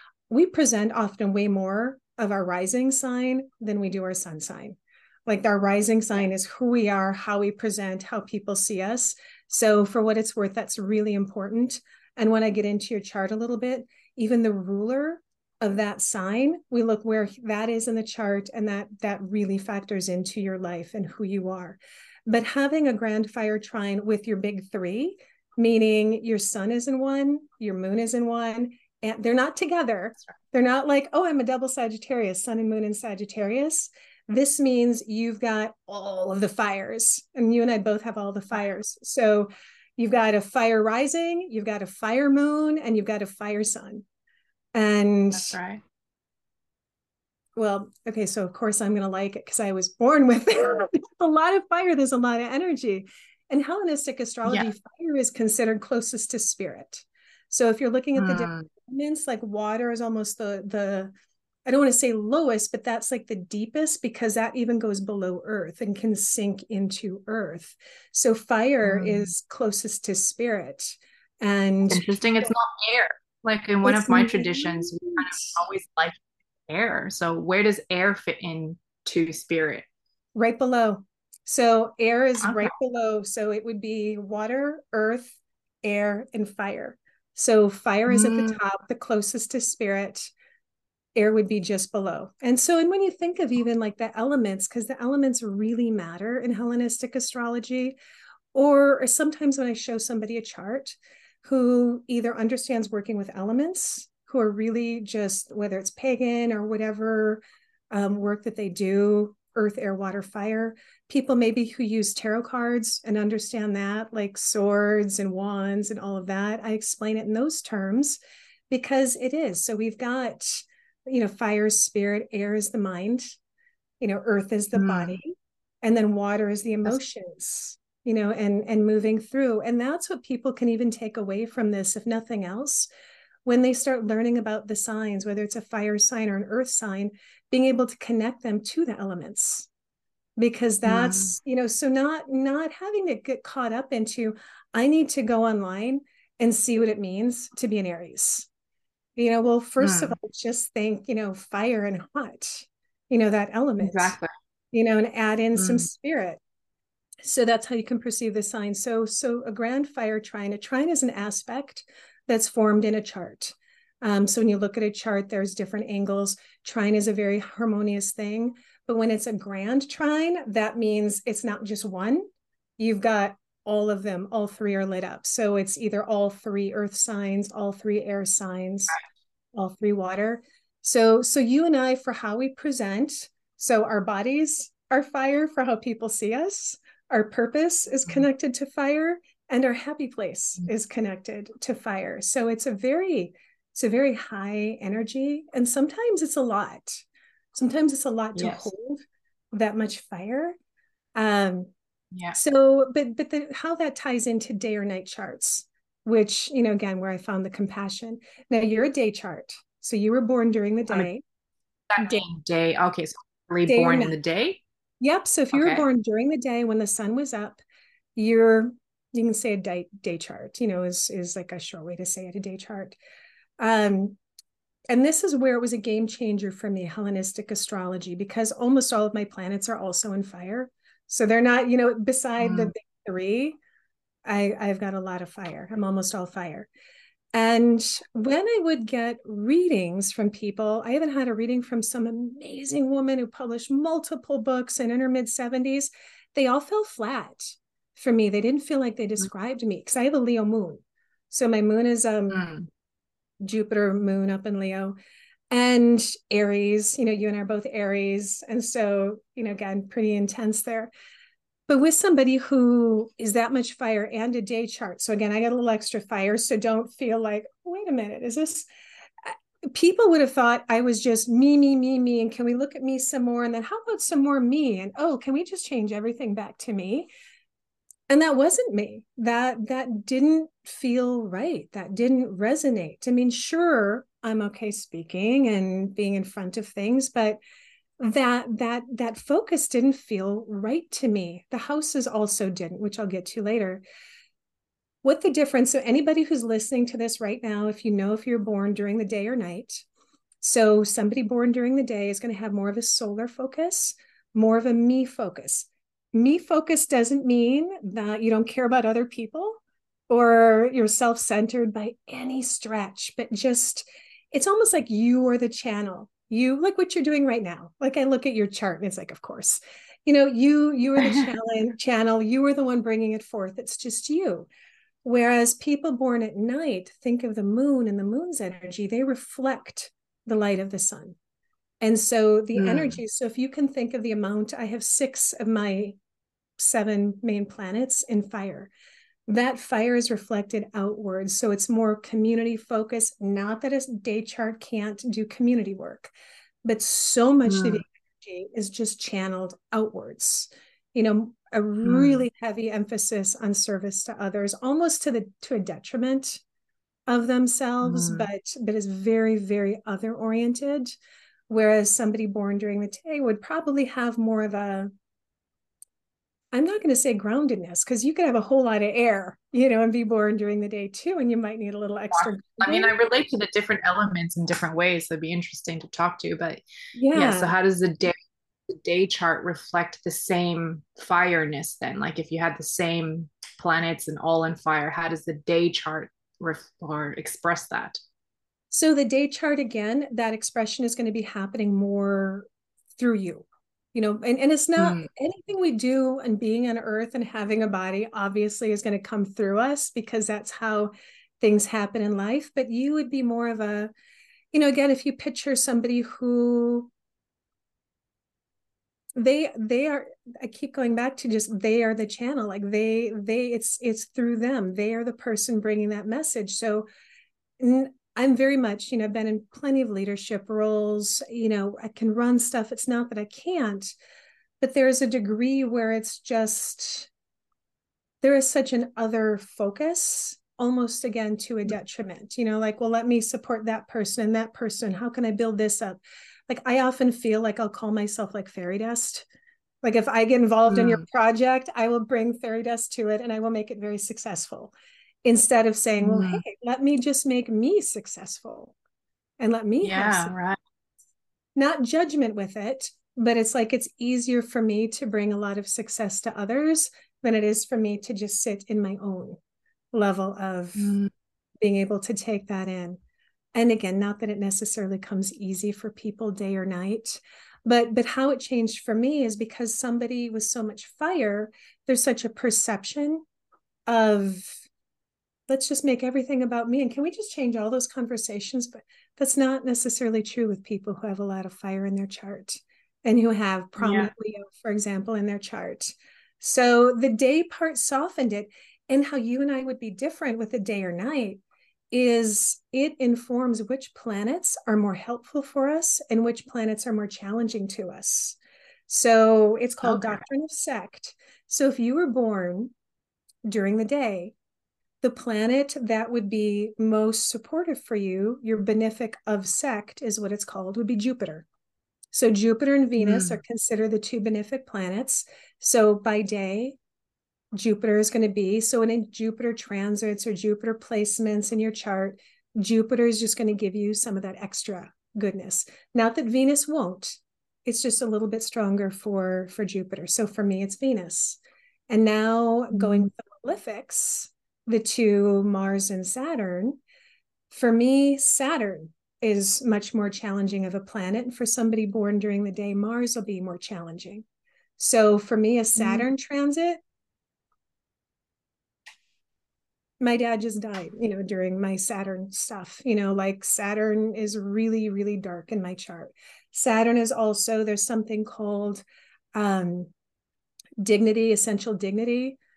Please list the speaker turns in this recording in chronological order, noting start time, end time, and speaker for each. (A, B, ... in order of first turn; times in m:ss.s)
0:00.3-0:44.0 A
0:44.8-0:45.6 A
0:45.3-0:45.8 B
0:47.6-1:01.1 A
0:58.2-0:58.7 B
1:01.7-1:12.5 A
1:08.8-1:09.3 B
1:11.9-1:19.9 B
1:13.8-1:15.4 A
1:20.4-1:30.3 A
1:22.4-1:22.7 B
1:28.1-1:28.6 B
1:31.1-1:38.0 A
1:38.5-1:58.2 A
1:58.7-2:03.3 A
2:04.0-2:12.9 A
2:04.8-2:05.2 B
2:13.4-2:19.7 A
2:20.4-2:28.5 A
2:20.8-2:21.4 B
2:29.2-2:34.1 A
2:29.8-2:30.1 B
2:33.8-2:34.3 B
2:34.7-2:36.4 A
2:35.6-2:35.9 B
2:37.2-2:52.2 A
2:52.8-2:59.0 A
2:59.5-3:19.0 A
3:18.4-3:18.7 B
3:19.5-3:20.6 A
3:21.2-3:21.7 A
3:22.1-3:22.4 B
3:22.4-3:31.2 A
3:31.9-3:34.6 B
3:32.0-3:32.2 A
3:33.7-3:34.2 A
3:35.0-3:37.6 A
3:35.5-3:35.8 B
3:38.2-3:43.0 A
3:43.6-3:44.2 A
3:44.9-3:53.6 A
3:52.4-3:52.7 B
3:54.2-3:56.7 A
3:57.3-4:12.5 A
4:12.3-4:12.7 B
4:13.4-4:15.0 A
4:15.5-4:20.9 A
4:21.7-4:28.7 A
4:29.2-4:37.1 A
4:38.1-4:47.4 A
4:48.0-4:53.8 A
4:55.0-4:59.9 A
5:00.4-5:24.5 A
5:21.0-5:21.3 B
5:25.0-5:31.2 A
5:31.8-5:36.0 A
5:32.5-5:33.0 B
5:36.6-5:38.7 A
5:39.3-5:46.1 A
5:46.6-5:56.4 A
5:47.5-5:47.8 B
5:51.8-5:52.2 B
5:57.1-6:00.9 A
5:57.8-5:58.3 B
6:01.5-6:04.9 A
6:06.5-6:12.9 A
6:12.1-6:16.6 B
6:17.0-6:17.5 A
6:17.1-6:18.2 B
6:18.7-6:28.0 B
6:28.7-6:43.9 A
6:34.8-6:35.1 B
6:44.5-6:46.9 A
6:49.1-6:56.9 A
6:57.6-7:03.9 A
7:04.6-7:07.1 A
7:08.2-7:19.3 A
7:19.8-7:28.7 A
7:20.7-7:21.0 B
7:26.0-7:26.4 B
7:29.4-7:30.3 A
7:29.8-7:30.6 B
7:31.5-7:39.4 A
7:39.9-7:41.0 A
7:40.8-7:41.1 B
7:41.6-7:43.0 A
7:43.5-7:53.2 A
7:53.9-7:54.6 A
7:55.5-8:18.4 A
8:03.8-8:04.1 B
8:18.9-8:22.7 A
8:19.8-8:20.2 B
8:23.4-8:24.3 A
8:25.0-8:31.5 A
8:32.1-8:36.8 A
8:33.0-8:33.4 B
8:37.5-8:56.8 A
8:52.7-8:53.1 B
8:57.5-9:04.2 A
9:04.8-9:06.8 A
9:05.8-9:06.1 B
9:10.0-9:19.9 A
9:20.8-9:22.4 A